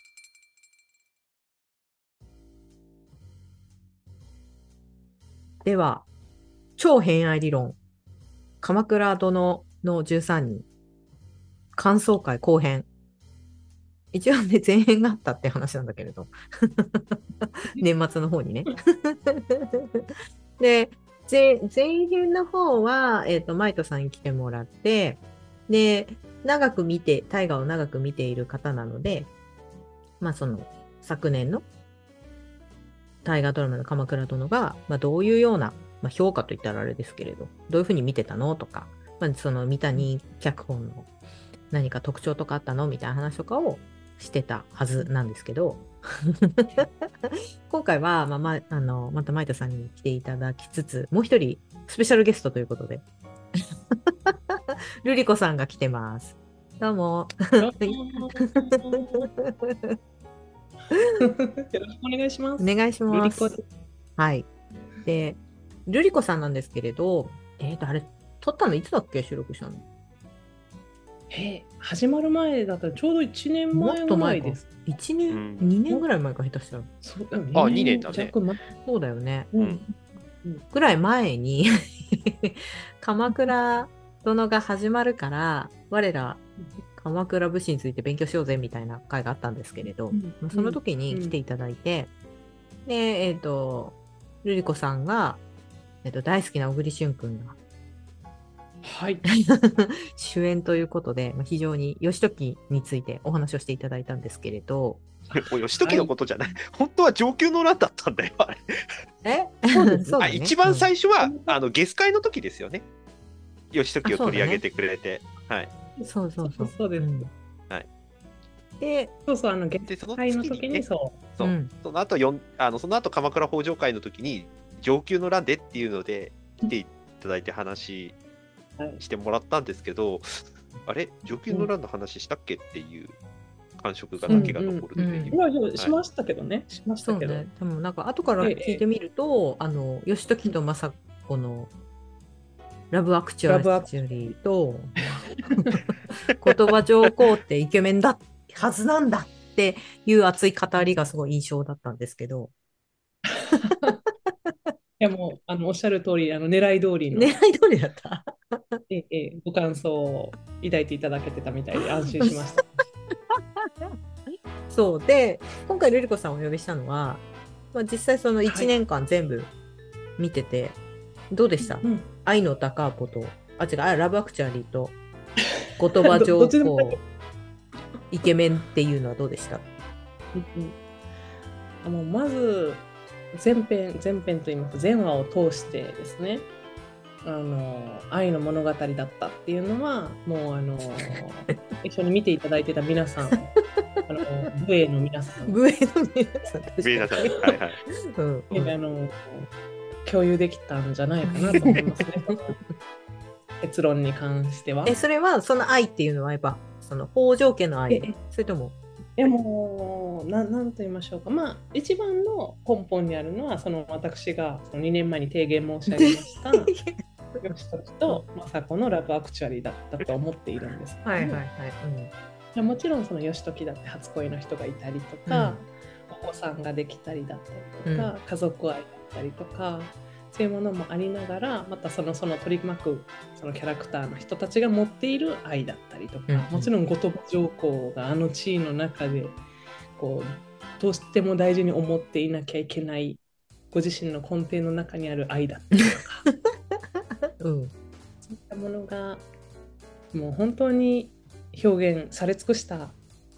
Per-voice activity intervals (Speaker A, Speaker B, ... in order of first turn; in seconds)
Speaker A: 5.6-6.1, 6.8-7.8, 8.6-10.7, 11.7-12.8, 14.1-20.0, 20.6-29.3, 30.2-31.6, 33.2-41.1, 41.7-53.0, 53.6-60.0, 62.6-63.5, 64.2-64.5, 65.0-69.8, 73.7-76.9, 78.8-79.5, 80.7-92.1, 92.8-95.4, 96.0-97.5, 99.3-105.0, 109.2-110.9, 114.0-114.6, 116.1-117.3, 118.8-119.1, 121.4-121.7, 134.2-135.3, 137.0-141.7, 142.9-145.8, 146.3-152.5, 154.4-154.7, 157.1-158.8, 162.1-162.6, 163.3-169.5, 170.2-170.8, 171.3-175.0, 175.8-177.0, 178.1-179.6, 195.5-197.3, 198.2-198.7, 201.2-202.3, 204.8-208.7, 215.9-217.4, 221.0-222.1, 225.3-225.6, 227.8-228.1, 236.3-236.7, 247.4-247.7
Speaker B: 57.6-59.3, 61.2-63.6, 71.3-74.8, 77.0-78.6, 79.5-80.6, 90.1-91.3, 98.8-99.2, 105.3-106.1, 109.7-110.2, 111.2-111.6, 116.0-117.3, 119.3-121.2, 134.3-137.4, 138.4-138.8, 143.5-144.3, 145.0-145.8, 153.3-154.0, 155.0-157.4, 158.9-162.8, 168.4-168.7, 171.6-172.1, 176.0-177.0, 180.3-180.8, 181.8-186.5, 187.2-193.5, 194.1-195.6, 198.5-199.5, 200.0-202.6, 203.6-205.0, 207.9-208.2, 209.2-216.7, 217.4-221.4, 222.5-239.4, 239.9-246.2, 248.2-249.2, 250.1-253.0
Speaker C: 75.3-75.7, 77.5-78.3, 79.6-79.8, 105.4-108.8, 110.2-112.8, 113.7-115.7, 119.9-128.1, 129.0-133.2, 133.8-135.9, 196.8-197.8